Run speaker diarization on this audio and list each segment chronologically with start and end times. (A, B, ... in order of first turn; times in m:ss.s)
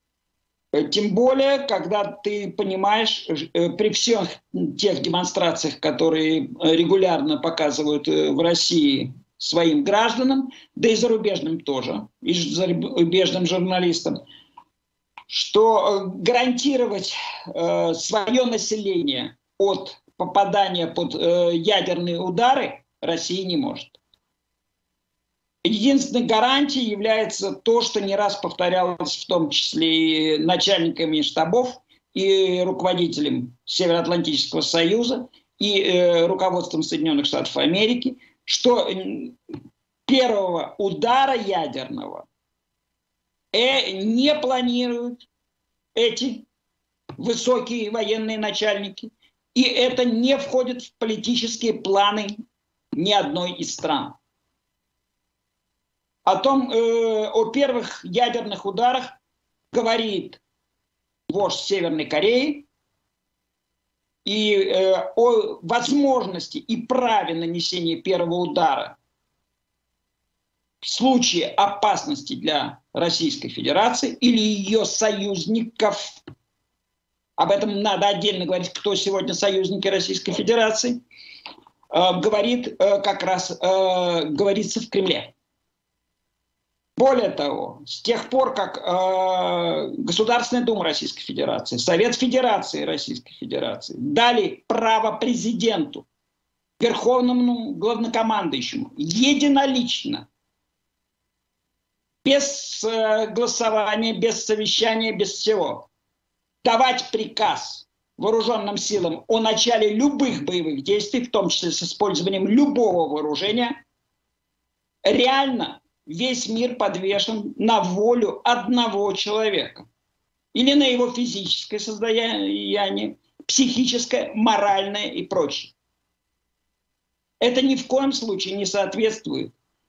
0:00.7-0:14.2 A
0:15.3-0:24.0 A
0:25.6-0:39.4 A
0:40.1-0:42.2 A
0:43.5-0:45.2 A
0:45.9-0:46.4 A
0:47.2-0:52.4 A
0:52.9-0:54.2 A
0:56.2-0:59.1 A
0:59.7-1:00.4 A
1:01.3-1:02.6 A
1:04.2-1:09.0 A
1:10.8-1:16.2 A
1:17.4-1:21.0 A
1:21.9-1:25.3 A
1:27.0-1:36.0 A
1:36.8-1:40.3 A
1:42.2-1:45.9 A
1:46.6-1:53.8 A
1:55.0-1:59.9 A
2:00.5-2:05.7 A
2:07.4-2:09.5 A